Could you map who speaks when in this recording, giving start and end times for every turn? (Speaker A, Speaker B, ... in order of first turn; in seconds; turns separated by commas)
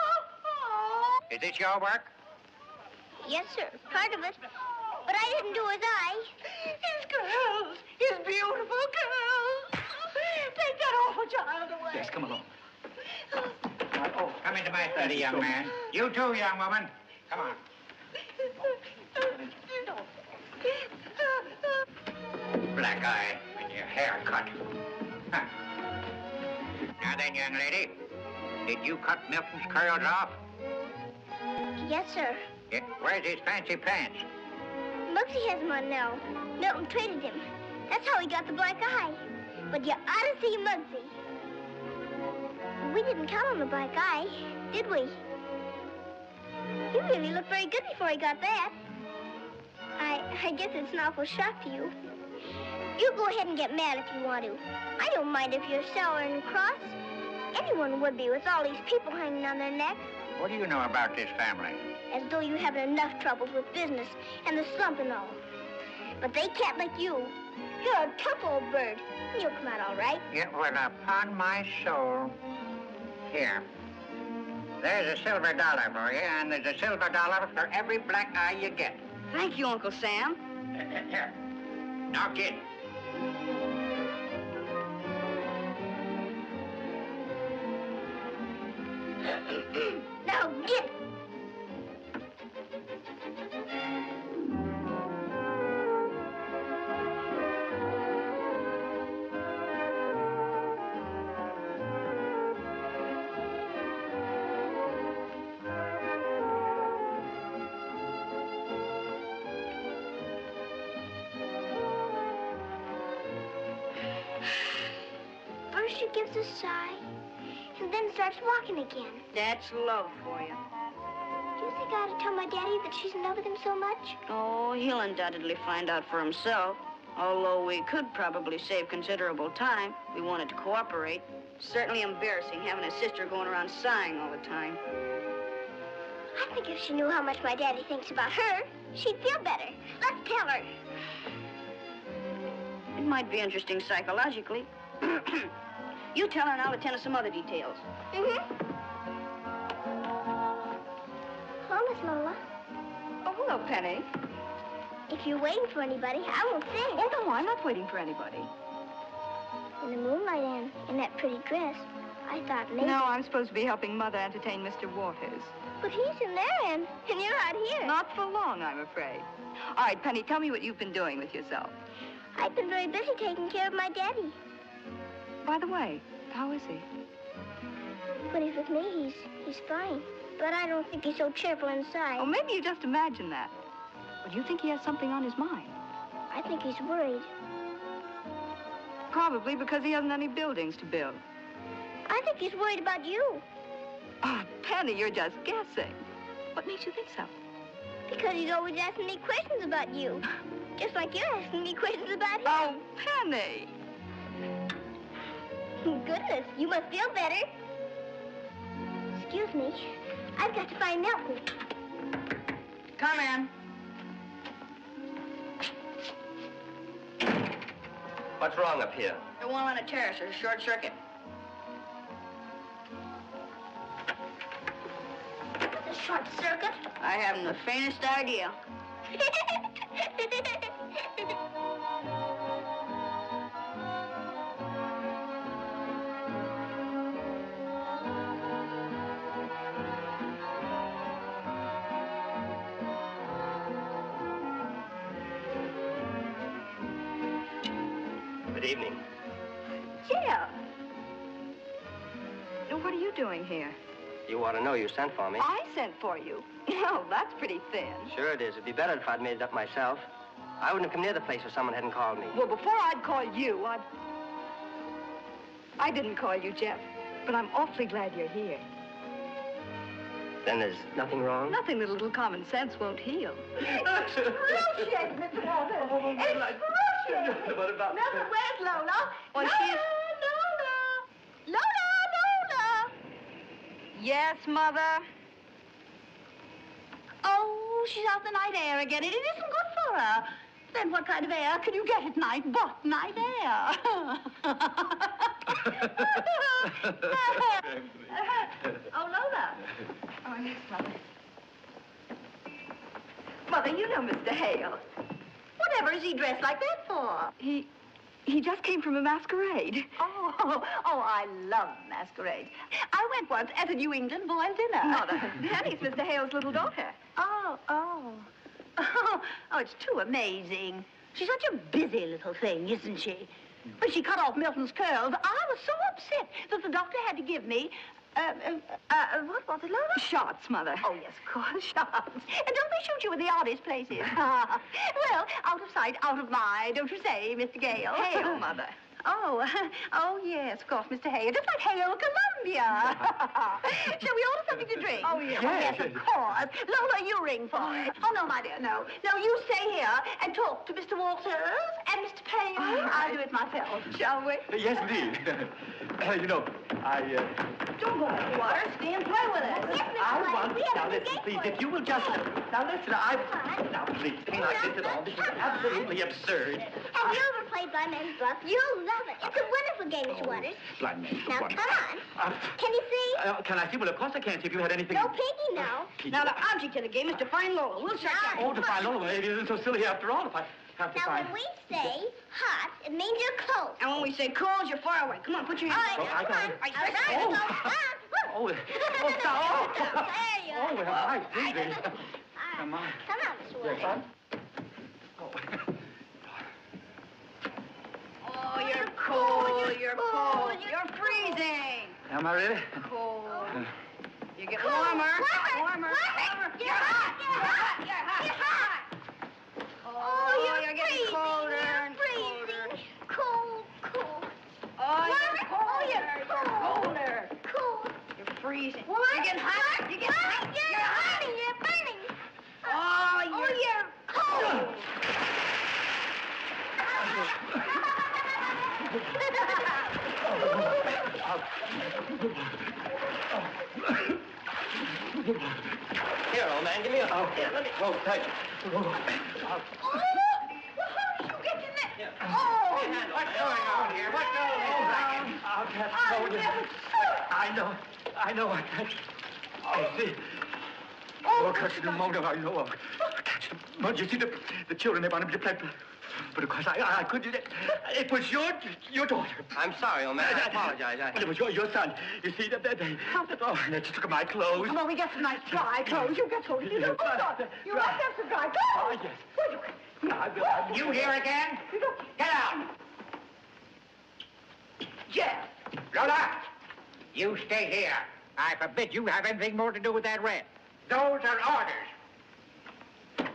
Speaker A: 1.3-2.1, Speaker B: 3.2-4.4, Speaker B: 5.0-6.3, Speaker C: 6.8-12.1, Speaker D: 11.9-12.5, Speaker D: 13.9-15.7, Speaker A: 14.4-17.6, Speaker A: 22.7-24.6, Speaker A: 27.0-28.0, Speaker A: 28.6-30.4, Speaker B: 31.8-32.5, Speaker A: 32.7-34.3, Speaker B: 35.1-41.1, Speaker B: 42.8-45.2, Speaker B: 46.9-48.8, Speaker B: 50.0-51.9, Speaker B: 53.0-57.0, Speaker B: 57.5-60.1, Speaker A: 60.4-61.8, Speaker B: 62.1-65.4, Speaker B: 66.2-70.2, Speaker A: 70.3-72.3, Speaker A: 73.3-73.7, Speaker A: 74.8-79.0, Speaker E: 79.3-80.4, Speaker A: 80.7-81.3, Speaker A: 82.1-82.6, Speaker B: 90.2-90.9, Speaker B: 115.7-117.0, Speaker B: 117.7-119.2, Speaker E: 119.3-120.6, Speaker B: 121.6-124.2, Speaker E: 124.3-134.8, Speaker B: 136.3-140.7, Speaker E: 142.9-145.5, Speaker E: 146.1-147.8, Speaker B: 148.1-148.4, Speaker B: 151.6-152.4, Speaker F: 153.2-154.1, Speaker B: 155.1-157.1, Speaker F: 156.9-158.5, Speaker B: 159.8-163.1, Speaker F: 162.8-165.5, Speaker B: 165.8-167.9, Speaker F: 167.8-171.7, Speaker B: 172.3-174.4, Speaker F: 175.4-176.8, Speaker B: 178.3-182.3, Speaker F: 182.2-183.5, Speaker F: 184.2-185.8, Speaker B: 186.3-187.3, Speaker F: 189.1-191.2, Speaker B: 192.1-193.4, Speaker F: 194.2-196.0, Speaker F: 196.5-197.3, Speaker B: 198.1-200.2, Speaker B: 200.8-202.7, Speaker F: 202.4-203.7, Speaker B: 205.8-207.5, Speaker B: 209.1-211.5, Speaker E: 213.0-213.5, Speaker G: 218.4-219.2, Speaker E: 219.4-221.0, Speaker B: 225.8-226.8, Speaker E: 227.0-228.6, Speaker G: 248.5-249.0, Speaker F: 250.0-250.6, Speaker F: 252.7-253.8, Speaker G: 254.3-255.5, Speaker F: 255.4-258.1, Speaker G: 258.1-262.4, Speaker F: 262.3-263.8, Speaker F: 265.8-268.6, Speaker G: 270.4-271.6, Speaker F: 271.5-273.5, Speaker D: 273.6-275.1, Speaker C: 274.5-275.5, Speaker D: 275.7-278.3, Speaker C: 276.2-276.5, Speaker C: 277.9-282.9, Speaker F: 279.3-279.9, Speaker F: 283.9-285.0, Speaker C: 287.2-294.9, Speaker D: 296.8-298.2, Speaker C: 298.9-299.5, Speaker F: 300.2-301.0, Speaker F: 303.5-304.8, Speaker C: 305.6-307.3, Speaker F: 307.4-307.7, Speaker F: 308.2-309.9, Speaker C: 310.0-315.2, Speaker F: 314.8-317.0, Speaker C: 317.2-330.1, Speaker F: 329.9-330.8, Speaker C: 330.8-338.4, Speaker F: 337.9-338.8, Speaker C: 339.0-354.0, Speaker D: 345.2-346.0, Speaker F: 352.6-353.1, Speaker F: 353.9-354.5, Speaker D: 354.5-357.5, Speaker F: 357.8-359.6, Speaker C: 358.3-359.6, Speaker B: 359.5-361.6, Speaker D: 359.7-366.8, Speaker B: 363.3-363.6, Speaker B: 364.3-365.9, Speaker B: 366.9-370.7, Speaker D: 370.1-372.6, Speaker B: 371.2-372.1, Speaker B: 372.6-373.2, Speaker D: 373.1-375.1, Speaker B: 374.9-375.9, Speaker D: 376.0-376.4, Speaker E: 376.1-378.6, Speaker B: 378.0-378.9, Speaker D: 378.3-381.3, Speaker B: 380.9-383.8, Speaker E: 383.8-387.5, Speaker B: 385.6-394.0, Speaker D: 385.9-387.7, Speaker D: 388.3-392.0, Speaker D: 392.5-393.0, Speaker D: 393.6-394.0, Speaker D: 395.2-395.6, Speaker E: 398.2-402.0, Speaker B: 398.5-401.4, Speaker D: 402.1-402.8, Speaker E: 402.8-403.6, Speaker B: 403.3-403.6, Speaker E: 404.4-408.7, Speaker B: 404.5-408.8, Speaker E: 409.8-412.7, Speaker B: 410.0-414.3, Speaker E: 414.8-417.3, Speaker B: 414.9-417.9, Speaker E: 418.2-421.2, Speaker B: 418.9-424.7, Speaker E: 422.6-424.6, Speaker D: 430.2-432.6, Speaker D: 433.4-434.1, Speaker D: 435.1-435.8, Speaker G: 436.3-437.8, Speaker D: 437.1-439.7, Speaker C: 441.1-441.9, Speaker D: 442.0-449.0, Speaker C: 442.4-442.7, Speaker A: 442.7-445.3, Speaker C: 446.0-446.5, Speaker D: 449.6-450.4, Speaker D: 451.3-459.6, Speaker C: 451.5-451.8, Speaker G: 459.5-461.2, Speaker D: 460.2-464.8, Speaker C: 464.5-469.5, Speaker D: 466.6-468.0, Speaker D: 468.7-469.2, Speaker D: 470.0-471.1, Speaker A: 470.6-472.6, Speaker C: 475.1-475.5, Speaker A: 475.9-476.5, Speaker A: 477.1-481.9